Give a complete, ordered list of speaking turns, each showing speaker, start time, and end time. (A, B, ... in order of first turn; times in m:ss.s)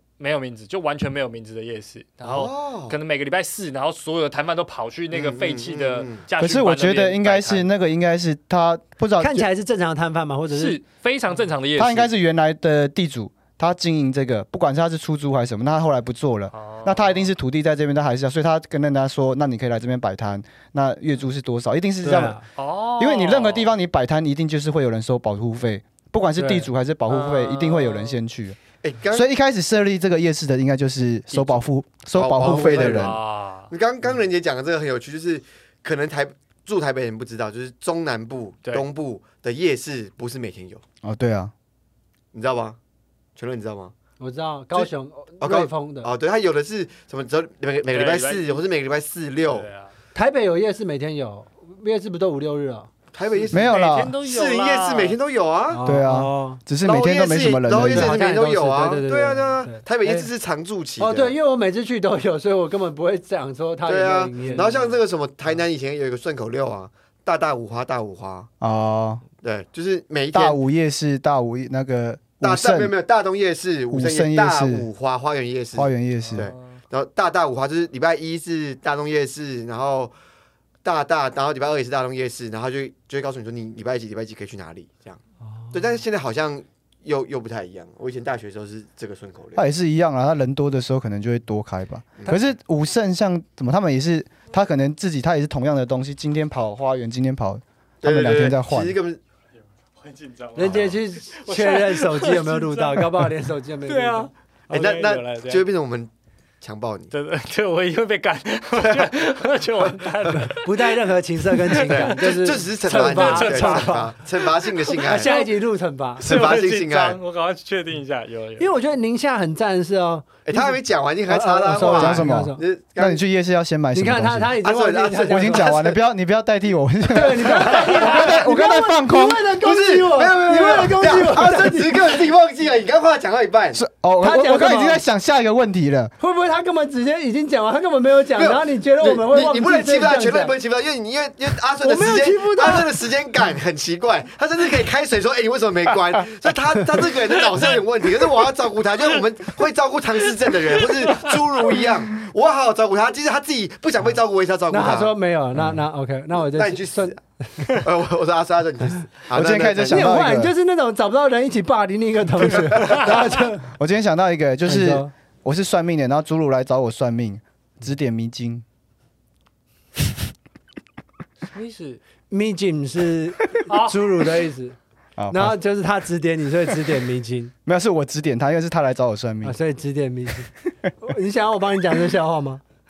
0:00.2-0:07.7 A
0:02.2-0:03.0 B
0:05.1-0:06.2 B
0:06.4-0:09.5 C
0:09.2-0:10.8 D
0:10.5-0:12.1 A
0:11.8-0:22.4 C
0:16.5-0:17.3 A
0:22.0-0:22.4 D
0:22.5-0:23.7 A
0:23.0-0:28.6 C
0:26.4-0:26.7 D
0:27.1-0:28.2 A
0:28.8-0:29.2 B
0:29.1-0:33.2 C
0:31.3-0:31.6 A
0:32.1-0:40.8 B
0:32.6-0:33.7 A
0:41.0-0:41.5 C
0:42.3-0:42.8 B
0:43.4-0:43.9 B
0:44.2-0:46.1 D
0:45.4-0:49.7 B
0:47.9-0:48.6 A
0:49.4-0:49.9 A
0:50.1-0:52.9 D
0:53.1-0:55.9 B
0:53.5-0:55.2 A
0:53.5-0:54.1 C
0:55.7-0:56.6 D
0:55.8-0:58.1 C
0:56.8-1:01.4 B
0:57.8-1:00.3 D
1:01.0-1:04.9 D
1:03.8-1:08.5 B
1:08.6-1:09.2 C
1:09.4-1:10.6 B
1:10.3-1:12.9 C
1:12.4-1:20.1 B
1:13.9-1:14.9 C
1:15.8-1:16.5 C
1:16.3-1:16.8 A
1:20.8-1:25.2 B
1:25.4-1:25.8 D
1:25.7-1:29.6 B
1:29.6-1:39.0 C
1:38.0-1:39.2 B
1:39.9-1:43.3 A
1:40.5-1:44.3 D
1:40.6-1:40.9 B
1:43.8-1:45.6 A
1:44.7-1:47.1 B
1:47.1-1:50.9 A
1:48.8-1:49.1 B
1:50.3-1:54.2 D
1:51.6-1:55.4 A
1:51.9-1:55.4 B
1:54.8-1:56.3 D
1:56.2-1:57.2 B
1:56.2-1:58.7 A
1:58.6-2:02.6 D
2:00.4-2:03.2 B
2:01.8-2:04.5 C
2:03.9-2:05.8 D
2:04.6-2:06.0 B
2:05.3-2:09.5 C
2:07.1-2:12.2 D
2:09.6-2:13.8 B
2:13.8-2:16.1 C
2:14.2-2:15.0 D
2:16.2-2:20.5 D
2:18.3-2:35.2 B
2:21.8-2:22.9 D
2:30.9-2:31.3 A
2:34.7-2:37.8 D
2:36.4-2:37.2 B
2:37.7-2:40.1 B
2:39.3-2:40.5 C
2:39.8-2:43.7 D
2:43.7-2:48.6 C
2:44.6-2:45.1 D
2:51.5-2:52.0 A
2:52.3-2:54.8 D
2:53.7-2:54.1 A
2:55.2-2:55.6 C
2:55.3-2:57.5 D
2:57.6-2:59.6 C
2:59.4-3:02.6 D